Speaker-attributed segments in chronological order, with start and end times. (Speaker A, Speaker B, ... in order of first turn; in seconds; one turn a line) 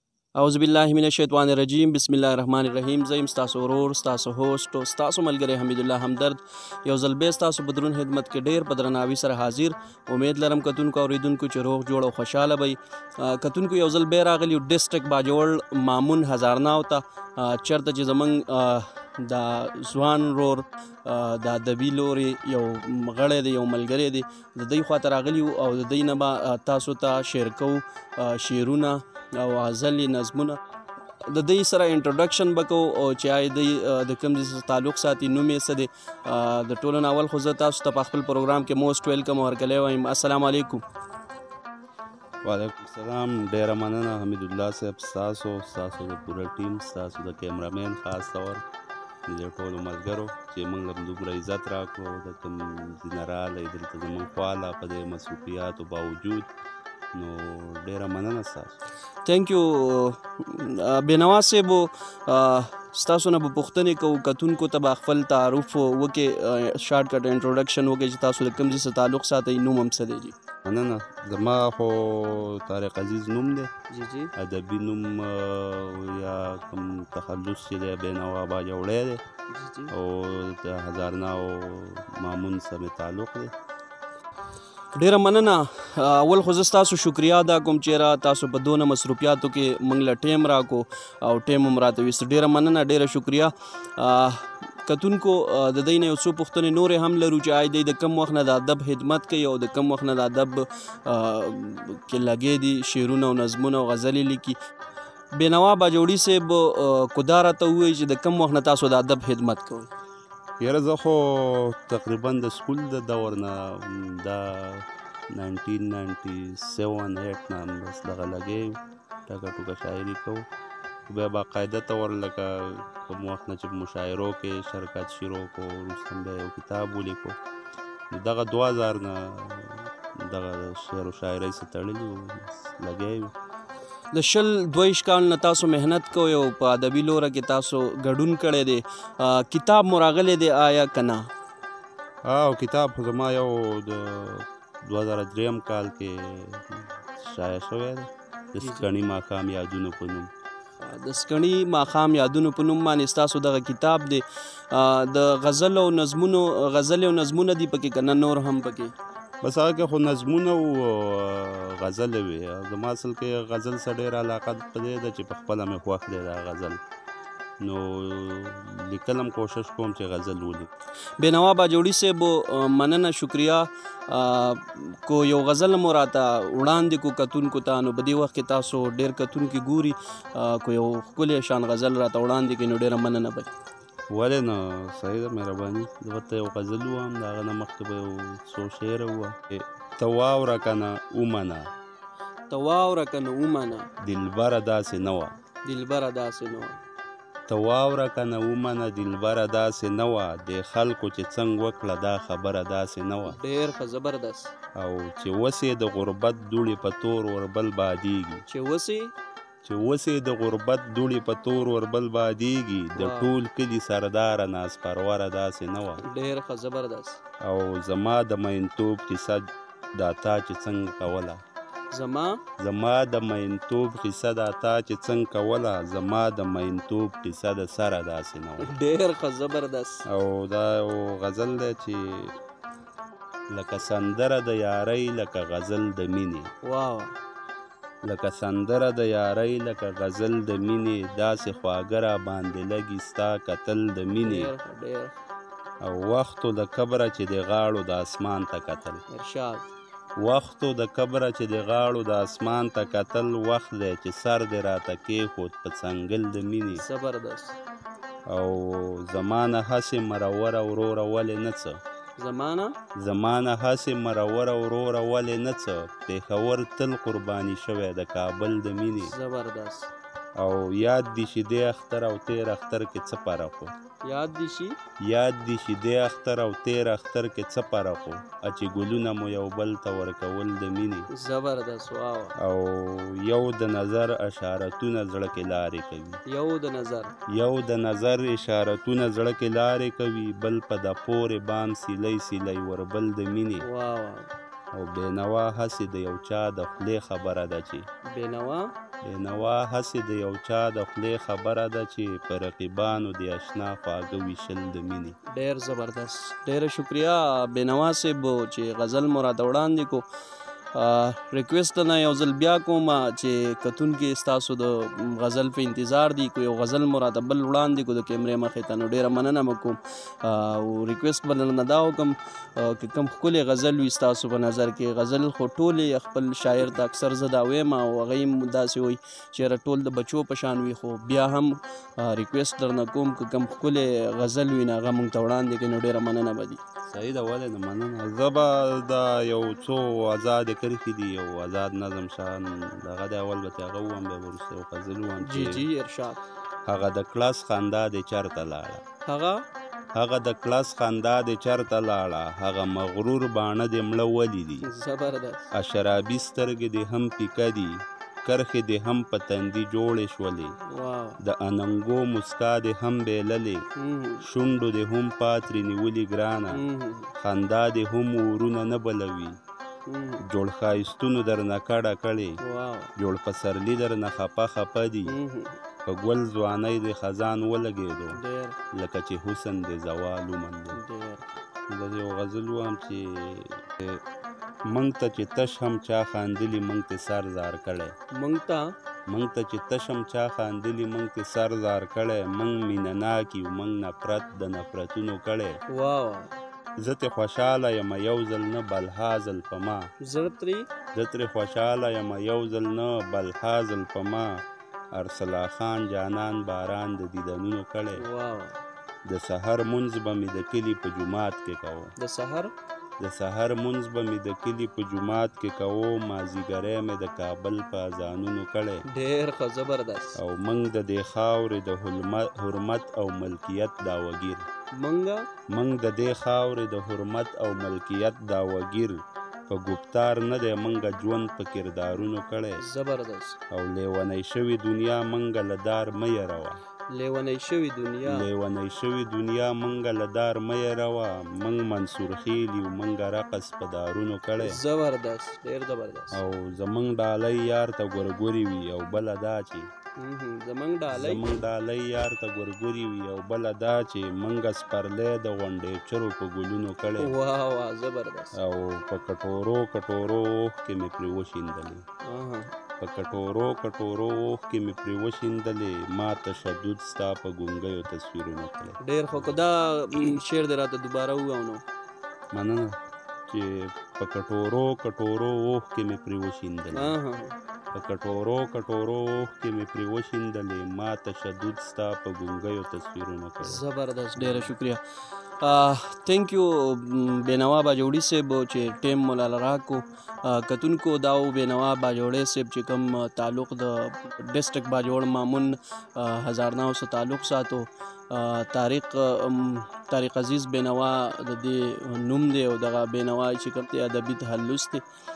Speaker A: 0.4-30.6
Speaker A: 31.3-40.8
Speaker B: 42.4-48.6
Speaker B: 49.3-56.5
Speaker B: 57.1-58.8
Speaker A: 59.2-70.3
Speaker B: 70.7-73.7
Speaker A: 73.9-74.3
Speaker B: 74.4-79.2
Speaker A: 79.5-79.9
Speaker B: 79.9-83.5
Speaker A: 84.9-104.6
Speaker A: 105.4-109.9
Speaker B: 110.6-118.7
Speaker B: 119.3-120.4
Speaker B: 121.1-127.4
Speaker B: 128.1-133.3
Speaker A: 134.1-141.3
Speaker B: 142.2-150.3
Speaker A: 148.6-148.9
Speaker A: 150.8-158.9
Speaker B: 159.4-166.8
Speaker B: 167.6-170.7
Speaker A: 171.2-183.5
Speaker B: 184.1-191.6
Speaker A: 192.5-193.9
Speaker B: 194.0-195.3
Speaker A: 195.7-196.8
Speaker B: 197.5-203.4
Speaker A: 203.3-204.5
Speaker B: 204.8-208.4
Speaker A: 208.5-209.1
Speaker B: 209.7-216.0
Speaker A: 212.9-213.3
Speaker A: 216.0-217.2
Speaker B: 217.4-219.4
Speaker B: 220.0-221.4
Speaker A: 221.9-222.4
Speaker B: 222.6-228.7
Speaker A: 228.6-230.1
Speaker B: 230.1-232.3
Speaker B: 233.5-236.5
Speaker A: 236.6-237.1
Speaker B: 238.1-244.5
Speaker A: 244.2-245.1
Speaker B: 245.8-249.0
Speaker A: 249.1-249.7
Speaker B: 250.2-256.8
Speaker A: 256.8-257.6
Speaker B: 258.3-261.8
Speaker A: 262.2-262.8
Speaker B: 263.0-269.1
Speaker A: 269.0-269.9
Speaker B: 270.4-273.7
Speaker A: 274.1-274.8
Speaker B: 275.1-281.1
Speaker A: 281.1-282.4
Speaker B: 282.4-286.2
Speaker A: 286.3-287.1
Speaker B: 287.3-293.7
Speaker A: 293.6-294.3
Speaker B: 294.7-297.9
Speaker A: 298.1-298.7
Speaker B: 299.1-305.2
Speaker A: 305.3-310.0
Speaker A: 310.7-336.6
Speaker B: 336.9-345.6
Speaker A: 345.2-346.2
Speaker B: 346.7-348.8
Speaker A: 349.1-349.4
Speaker B: 349.9-354.7
Speaker A: 354.6-355.4
Speaker B: 355.5-357.7
Speaker B: 358.2-360.5
Speaker A: 360.7-361.2
Speaker B: 361.2-363.6
Speaker A: 363.8-364.3
Speaker B: 364.2-366.6
Speaker A: 366.5-367.1
Speaker B: 367.2-369.3
Speaker A: 369.9-370.2
Speaker B: 370.3-372.4
Speaker A: 372.4-372.9
Speaker B: 373.0-375.2
Speaker A: 375.1-375.6
Speaker B: 375.9-378.2
Speaker A: 378.1-378.6
Speaker B: 378.7-380.8
Speaker A: 380.7-381.4
Speaker B: 381.7-384.0
Speaker B: 384.7-387.9
Speaker A: 388.1-388.7
Speaker B: 389.1-395.6
Speaker A: 395.7-396.3
Speaker B: 396.8-399.9
Speaker A: 400.0-400.7
Speaker B: 400.9-404.4
Speaker B: 404.9-408.0
Speaker A: 408.0-408.6
Speaker B: 409.1-411.9
Speaker A: 412.0-412.5
Speaker B: 413.0-418.8
Speaker A: 418.9-420.2
Speaker B: 420.2-424.4
Speaker A: 424.8-425.2
Speaker B: 425.5-429.0
Speaker B: 429.5-432.6
Speaker A: 432.6-433.4
Speaker B: 433.5-436.6
Speaker A: 436.9-438.3
Speaker B: 438.1-444.6
Speaker A: 444.4-446.2
Speaker B: 446.1-449.7
Speaker A: 450.0-451.3
Speaker B: 450.9-457.1
Speaker A: 457.0-458.4
Speaker B: 458.4-461.8
Speaker A: 462.1-462.5
Speaker B: 462.8-469.4
Speaker A: 468.8-471.6
Speaker B: 472.3-472.7
Speaker B: 473.3-476.9
Speaker A: 476.7-477.4
Speaker B: 477.7-483.6
Speaker A: 483.4-484.8
Speaker B: 484.2-484.5
Speaker A: 485.4-504.8